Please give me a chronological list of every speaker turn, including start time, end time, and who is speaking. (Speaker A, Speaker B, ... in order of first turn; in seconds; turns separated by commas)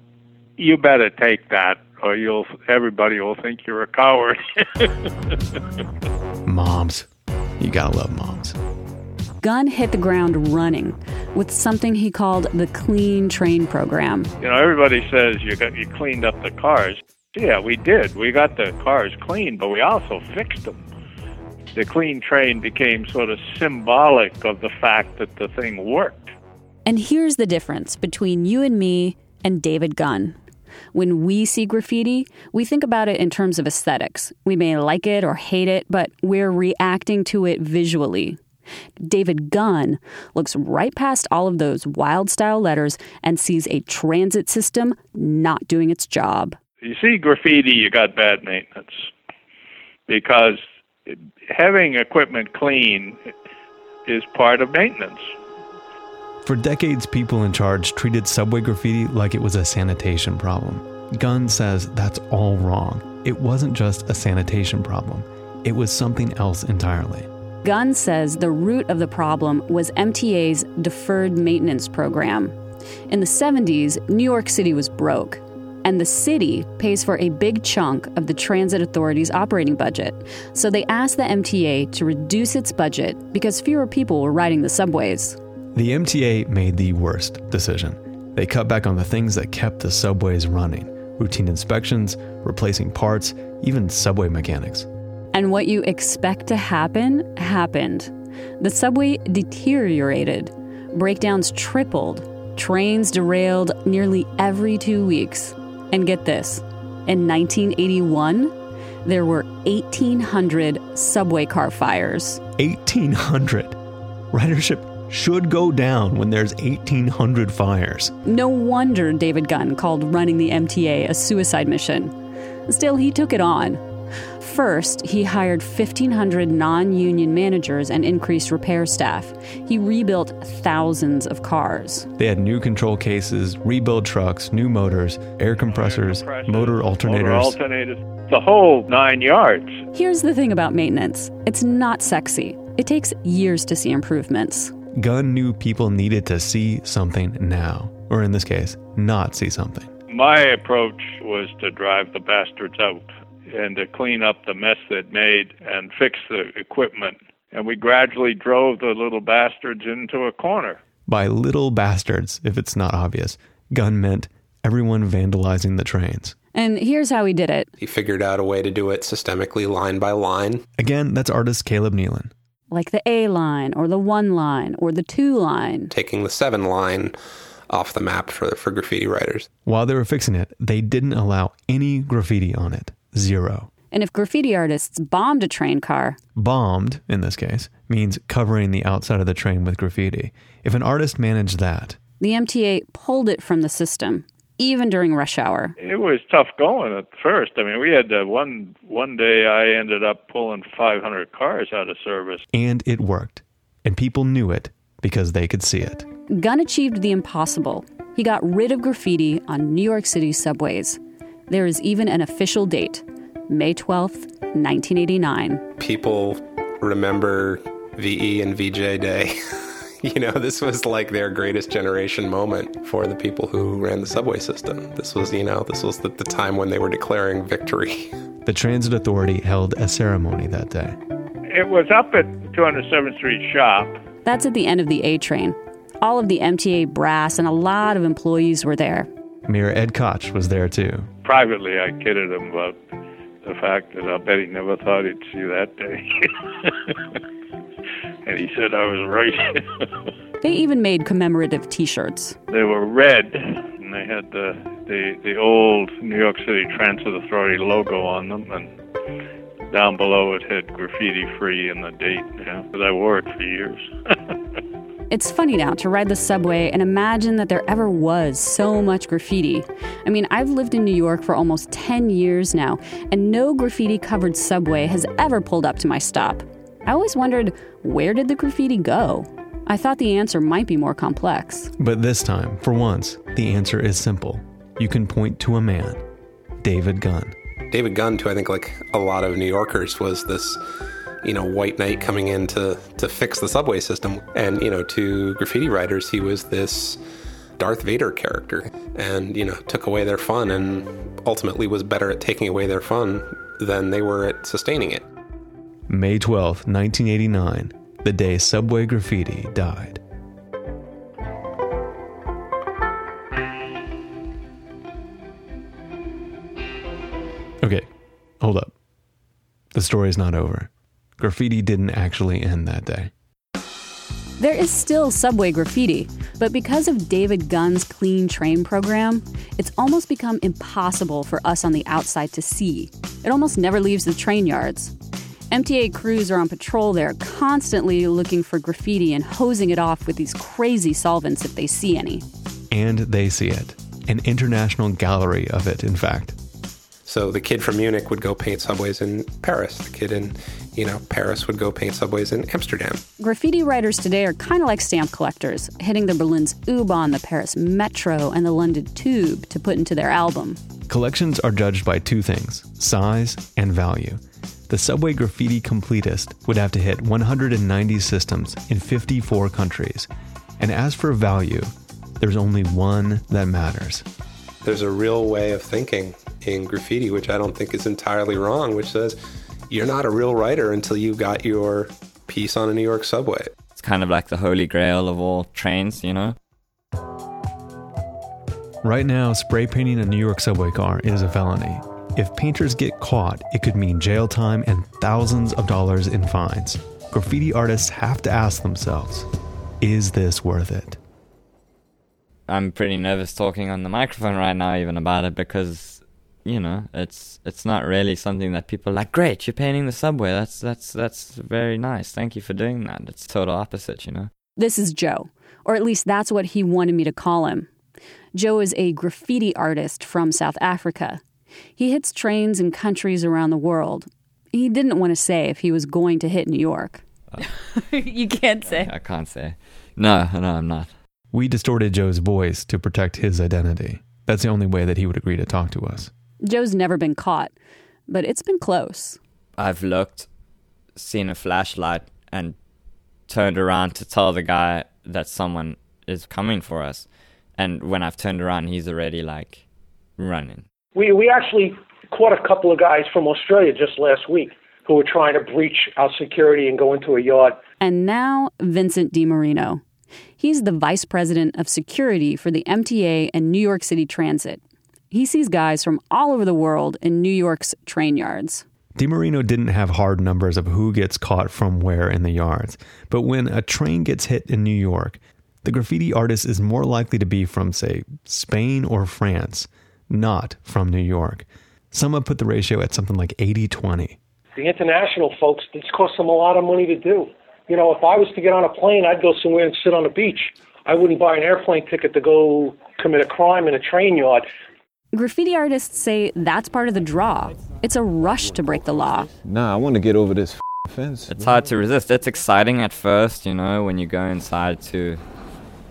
Speaker A: 0.6-5.3, Speaker B: 6.5-7.1, Speaker B: 7.6-8.6, Speaker C: 9.4-14.3, Speaker A: 14.4-20.8, Speaker A: 21.8-26.3, Speaker C: 26.9-30.4, Speaker C: 30.9-38.4, Speaker C: 39.0-46.6, Speaker A: 46.8-48.9, Speaker A: 50.1-53.2, Speaker A: 54.1-55.2, Speaker B: 56.5-67.3, Speaker C: 67.6-72.5, Speaker C: 73.1-85.4, Speaker B: 85.8-94.9, Speaker C: 95.3-108.5, Speaker C: 109.0-112.4, Speaker B: 112.6-113.8, Speaker B: 114.3-118.2, Speaker C: 118.3-122.1, Speaker C: 122.7-123.8, Speaker C: 124.4-132.1, Speaker B: 132.2-137.6, Speaker A: 135.6-139.8, Speaker C: 139.9-144.7, Speaker B: 144.9-149.9, Speaker A: 150.1-160.8, Speaker B: 161.1-166.4, Speaker C: 166.6-167.7, Speaker D: 167.8-170.6, Speaker B: 170.8-172.3, Speaker C: 172.7-175.9, Speaker D: 176.0-177.1, Speaker D: 177.7-179.5, Speaker B: 179.7-183.7, Speaker C: 183.9-186.2, Speaker B: 186.4-192.0, Speaker C: 192.2-195.8, Speaker A: 195.8-202.4, Speaker B: 202.5-206.1, Speaker C: 206.4-215.7, Speaker D: 215.8-217.6, Speaker D: 218.2-218.8, Speaker D: 220.1-228.1, Speaker B: 228.4-231.0, Speaker A: 231.5-234.0, Speaker C: 234.2-239.1, Speaker B: 239.5-241.1, Speaker A: 241.2-242.8, Speaker A: 243.4-247.2, Speaker A: 248.2-249.8, Speaker C: 250.4-252.4, Speaker A: 252.5-258.7, Speaker A: 259.7-264.1, Speaker C: 265.1-281.7, Speaker B: 281.8-286.0, Speaker B: 286.6-287.4, Speaker D: 287.8-290.6, Speaker D: 291.3-292.9, Speaker D: 293.6-294.2, Speaker D: 300.4-300.8, Speaker B: 305.9-310.0, Speaker B: 317.6-317.9, Speaker B: 318.4-318.7, Speaker B: 319.7-323.1, Speaker C: 324.4-334.9, Speaker C: 335.5-342.2, Speaker B: 342.7-346.4, Speaker D: 347.1-353.0, Speaker C: 353.2-360.6, Speaker B: 360.9-370.1, Speaker B: 370.6-374.1, Speaker D: 375.2-378.8, Speaker E: 383.8-386.4, Speaker B: 388.8-399.3, Speaker B: 399.8-401.0, Speaker E: 402.5-414.3, Speaker C: 414.6-417.7, Speaker C: 418.3-421.2, Speaker C: 421.8-428.9, Speaker E: 428.7-430.9, Speaker B: 431.3-436.1, Speaker C: 436.4-437.5, Speaker C: 438.1-439.2, Speaker E: 439.6-440.3, Speaker E: 441.0-442.6, Speaker E: 443.3-447.1, Speaker E: 447.6-449.6, Speaker E: 450.2-450.6, Speaker F: 450.9-457.6, Speaker C: 457.8-459.8, Speaker C: 460.4-468.6, Speaker B: 469.0-484.2, Speaker F: 484.5-494.5, Speaker C: 495.1-499.3, Speaker G: 499.4-501.6, Speaker E: 501.4-505.2